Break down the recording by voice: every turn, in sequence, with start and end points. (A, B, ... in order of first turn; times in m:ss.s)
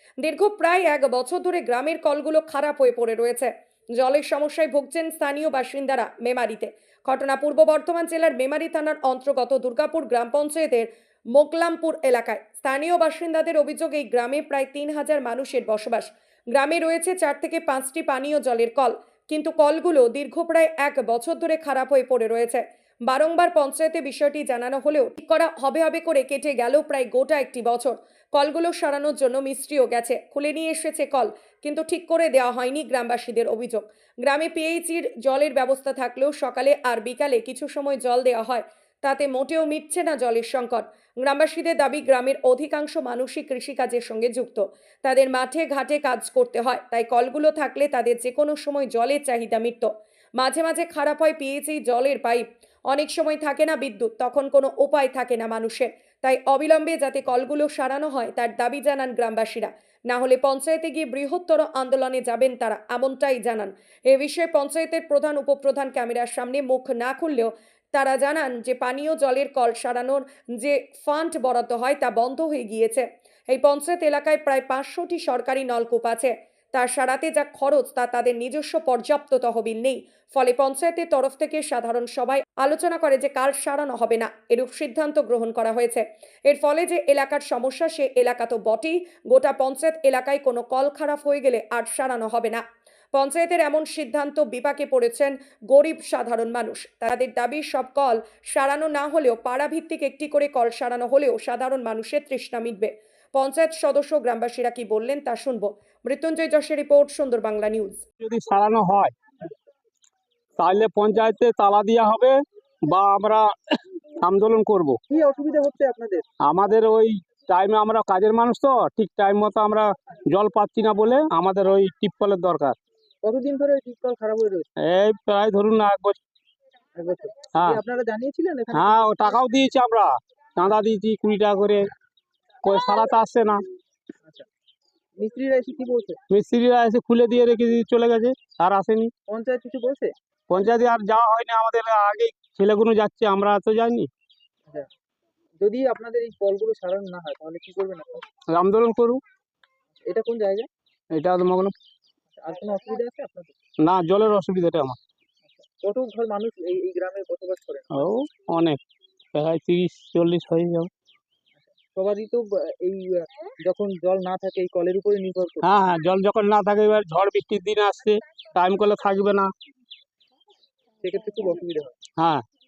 0:00.2-1:32.6 A
1:33.1-1:48.0 A
1:48.2-1:49.1 B
1:50.6-1:52.4 B
1:52.9-1:55.0 B
1:55.1-1:56.2 C
1:56.4-2:02.8 B
2:03.2-2:04.7 C
2:04.8-2:06.2 B
2:07.0-2:09.2 C
2:07.6-2:07.8 B
2:08.7-2:11.9 B
2:12.6-2:13.6 B
2:15.2-2:16.2 C
2:16.3-2:19.1 B
2:19.3-2:20.1 C
2:20.5-2:24.1 B
2:25.6-2:28.3 C
2:28.5-2:29.2 B
2:30.0-2:30.7 C
2:31.1-2:31.7 B
2:32.4-2:33.6 C
2:33.8-2:35.0 B
2:35.5-2:38.1 C
2:37.9-2:38.8 B
2:39.3-2:40.9 B
2:41.6-2:45.8 C
2:45.6-2:49.5 B
2:51.0-2:52.0 C
2:52.2-2:52.4 B